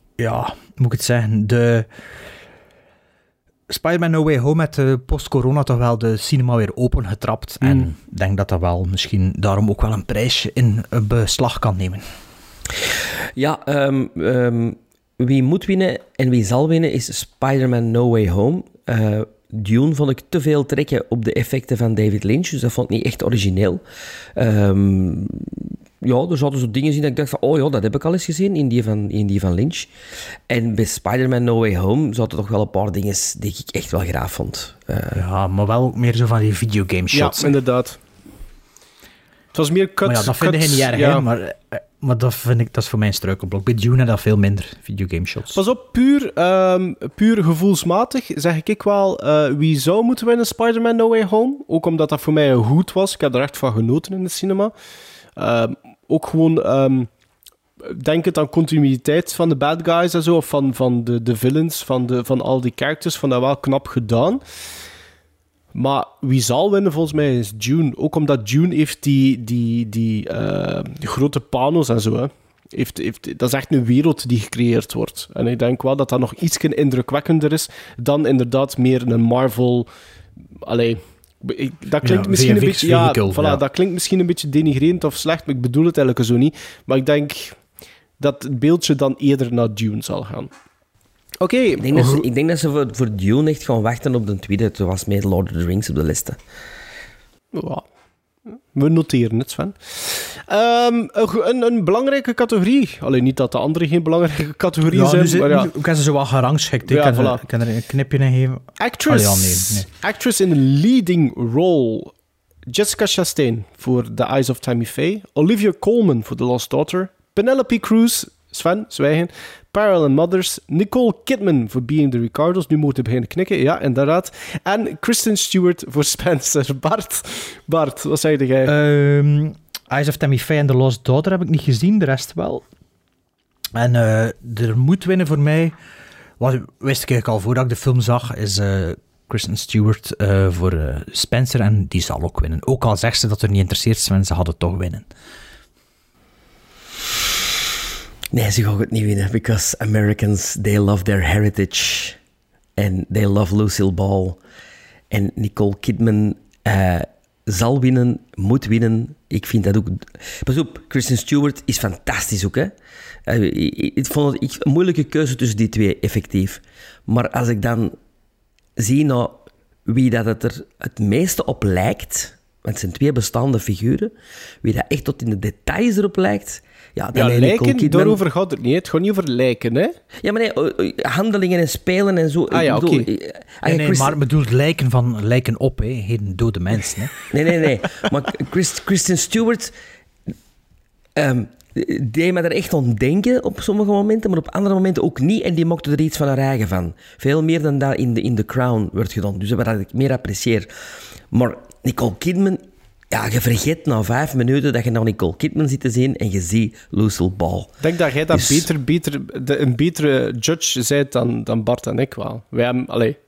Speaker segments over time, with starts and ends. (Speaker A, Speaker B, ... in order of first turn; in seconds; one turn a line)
Speaker A: 0.2-1.9
Speaker A: 3.7-12.1
Speaker B: 7.6-7.9
Speaker C: 13.3-23.8
Speaker C: 24.4-29.9
Speaker C: 30.5-35.2
Speaker A: 35.1-37.5
Speaker B: 37.1-38.0
Speaker B: 39.5-41.2
Speaker A: 40.0-45.6
Speaker B: 45.5-54.7
Speaker B: 55.4-57.1
Speaker B: 57.9-64.4
Speaker B: 65.7-79.9
Speaker B: 80.7-87.6
Speaker A: 82.0-83.6
Speaker B: 88.2-90.5
Speaker B: 91.4-92.2
Speaker C: 91.8-96.4
Speaker B: 97.5-97.8
Speaker B: 98.5-105.7
Speaker A: 104.8-109.9
Speaker B: 106.9-107.4
Speaker B: 108.8-112.1
Speaker B: 112.7-128.7
Speaker A: 128.7-132.7
Speaker A: 133.8-135.8
Speaker A: 136.4-145.1
Speaker C: 148.3-152.2
Speaker C: 152.8-154.4
Speaker C: 155.1-162.7
Speaker C: 163.3-167.9
Speaker C: 168.8-174.1
Speaker C: 174.6-178.2
Speaker B: 177.1-179.9
Speaker C: 180.2-184.2
Speaker B: 182.5-183.1
Speaker A: 183.6-187.1
Speaker C: 187.3-189.7
Speaker C: 191.2-200.7
Speaker C: 201.3-207.7
Speaker B: 207.8-213.2
Speaker C: 208.3-208.7